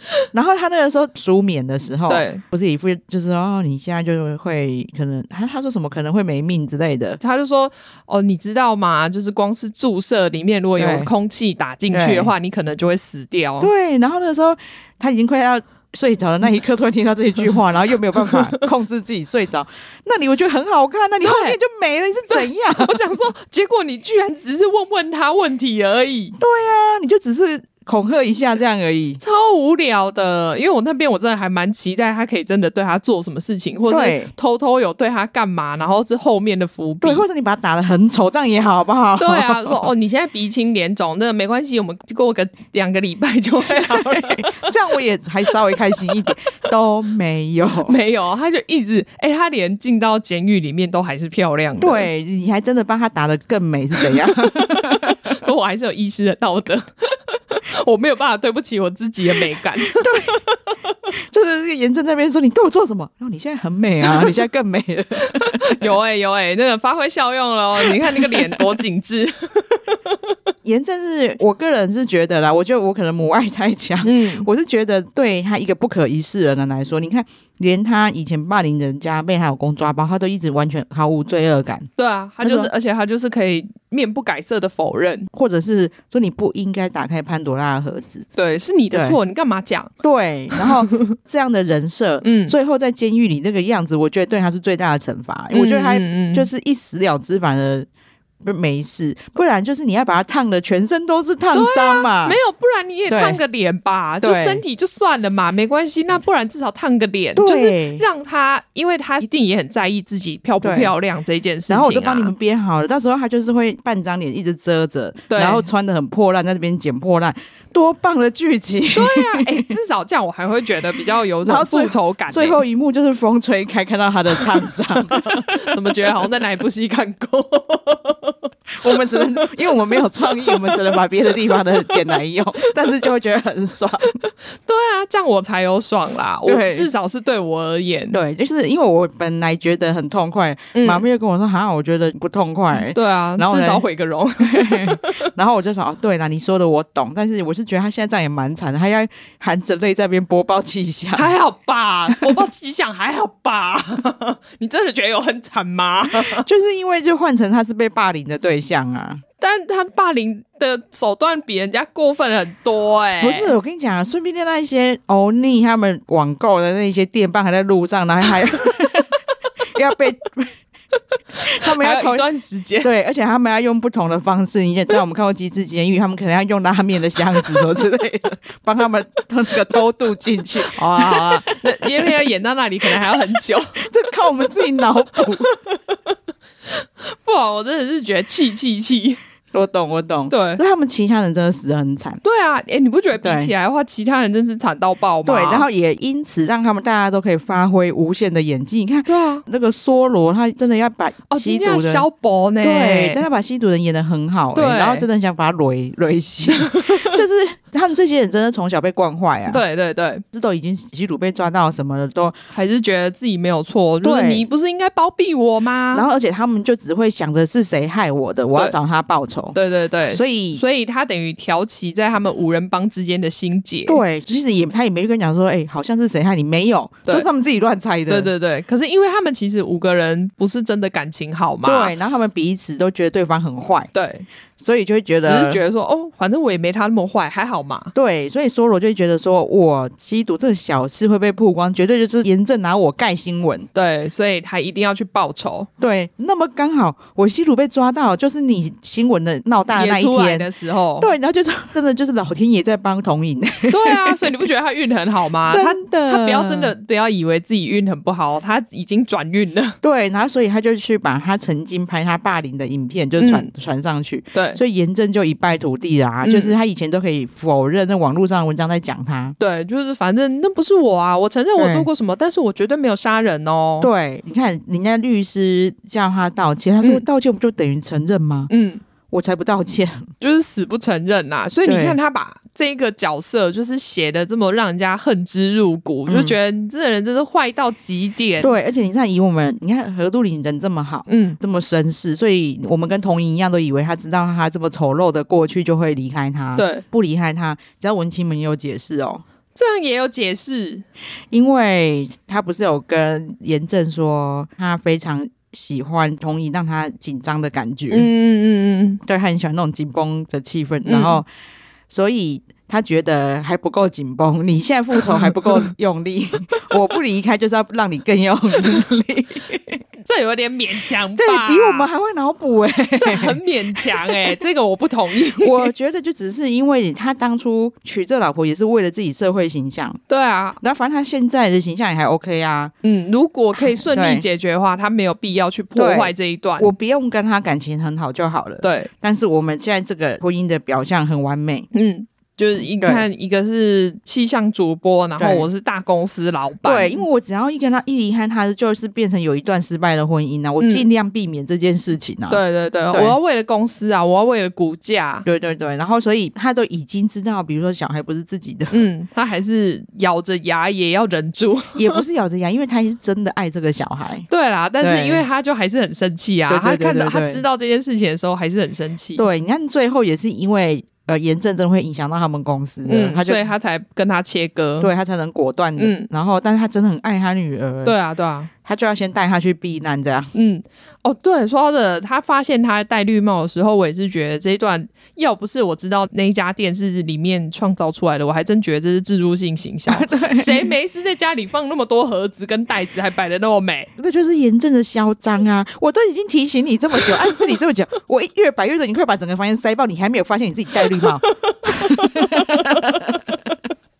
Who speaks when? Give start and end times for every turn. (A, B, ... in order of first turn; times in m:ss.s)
0:00.3-0:07.2 A
0:02.1-0:02.4 B
0:07.2-0:13.7 B
0:10.8-0:11.1 A
0:11.9-0:12.3 A
0:13.6-0:23.0 A
0:21.2-0:21.6 B
0:22.3-0:26.4 B
0:26.4-0:29.2 A
0:29.2-0:37.2 B
0:33.9-0:34.3 A
0:37.0-0:39.9 A
0:39.2-0:44.7 B
0:43.7-0:47.9 A
0:45.5-0:45.8 B
0:47.8-0:52.1 B
0:51.8-0:55.4 A
0:54.0-1:00.5 B
0:59.9-1:00.4 A
1:01.2-1:05.8 A
1:05.2-1:10.3 B
1:07.8-1:08.6 A
1:10.6-1:21.9 A
1:14.0-1:14.5 B
1:22.0-1:25.3 B
1:22.4-1:22.7 A
1:25.3-1:28.2 A
1:28.4-1:29.9 B
1:28.9-1:29.2 A
1:30.0-1:37.9 A
1:30.5-1:30.9 B
1:32.2-1:32.5 B
1:35.5-1:36.5 B
1:38.4-1:42.4 A
1:41.5-1:52.3 B
1:43.1-1:43.4 A
1:44.2-1:44.6 A
1:47.4-1:48.0 A
1:50.6-1:50.9 A
1:51.7-1:59.7 A
1:55.3-1:55.6 B
1:58.9-2:02.6 B
2:01.4-2:05.6 A
2:04.4-2:12.7 B
2:08.8-2:14.2 A
2:14.6-2:18.2 B
2:16.4-2:16.9 A
2:18.1-2:23.8 A
2:20.7-2:21.0 B
2:22.9-2:25.3 B
2:24.4-2:31.3 A
2:31.1-2:36.4 B
2:36.2-2:39.2 A
2:39.4-2:43.5 B
2:43.2-2:49.1 A
2:49.7-2:50.5 A
2:51.4-2:52.9 B
2:51.5-2:52.2 A
2:52.8-3:02.1 A
3:00.6-3:03.9 B
3:03.8-3:05.5 A
3:05.2-3:06.1 B
3:06.7-3:09.2 B
3:09.5-3:12.2 A
3:10.3-3:10.6 B
3:12.2-3:15.6 B
3:13.2-3:13.5 A
3:15.2-3:22.0 A
3:19.1-3:19.4 B
3:21.3-3:23.2 B
3:22.6-3:29.6 A
3:24.5-3:25.0 B
3:26.6-3:27.1 B
3:29.5-3:30.2 B
3:30.3-3:32.3 A
3:32.5-3:36.0 B
3:34.0-3:34.4 A
3:35.9-3:39.6 A
3:39.5-3:44.0 B
3:40.1-3:40.6 A
3:43.9-3:48.3 A
3:48.1-3:51.9 B
3:51.6-3:53.9 A
3:53.9-3:54.2 B
3:54.6-3:55.6 A
3:55.2-3:57.9 B
3:57.9-4:03.7 A
4:03.7-4:05.7 B
4:05.8-4:10.5 A
4:09.7-4:11.1 B
4:11.0-4:14.3 A
4:13.7-4:19.8 B
4:15.5-4:16.7 A
4:19.8-4:29.4 A
4:23.2-4:23.5 B
4:24.3-4:24.6 B
4:26.2-4:26.5 B
4:29.4-4:33.9 B
4:31.6-4:31.9 A
4:33.8-4:38.5 A
4:38.5-4:38.8 B
4:39.1-4:40.1 A
4:40.2-4:48.5 B
4:41.6-4:42.0 A
4:46.1-4:46.4 A
4:48.4-4:59.2 A
4:51.1-4:51.4 B
4:56.6-4:56.8 B
4:59.5-5:00.8 B
5:01.3-5:08.1 A
5:07.9-5:09.0 B
5:09.0-5:11.2 A
5:10.8-5:11.2 B
5:11.9-5:19.8 A
5:15.0-5:15.7 B
5:20.0-5:21.9 B
5:21.2-5:24.2 A
5:23.0-5:25.7 B
5:25.3-5:30.0 A
5:30.1-5:30.6 B
5:30.6-5:32.7 A
5:32.8-5:36.7 B
5:33.6-5:34.2 A
5:35.7-5:41.7 A
5:38.6-5:38.9 B
5:41.7-5:47.0 B
5:42.8-5:43.0 A
5:45.2-5:45.5 A
5:46.6-5:53.2 A
5:50.6-5:50.8 B
5:52.3-5:55.2 B
5:55.2-5:58.9 A
5:58.7-6:02.0 B
6:01.7-6:04.3 A
6:04.3-6:09.2 B
6:04.8-6:05.2 A
6:06.5-6:07.4 A
6:09.2-6:13.5 A
6:12.8-6:14.9 B
6:14.8-6:17.9 A
6:15.8-6:16.1 B
6:17.8-6:18.5 B
6:18.6-6:20.3 A
6:20.3-6:33.9 B
6:29.9-6:30.7 A
6:34.0-6:43.2 A
6:40.9-6:43.0 B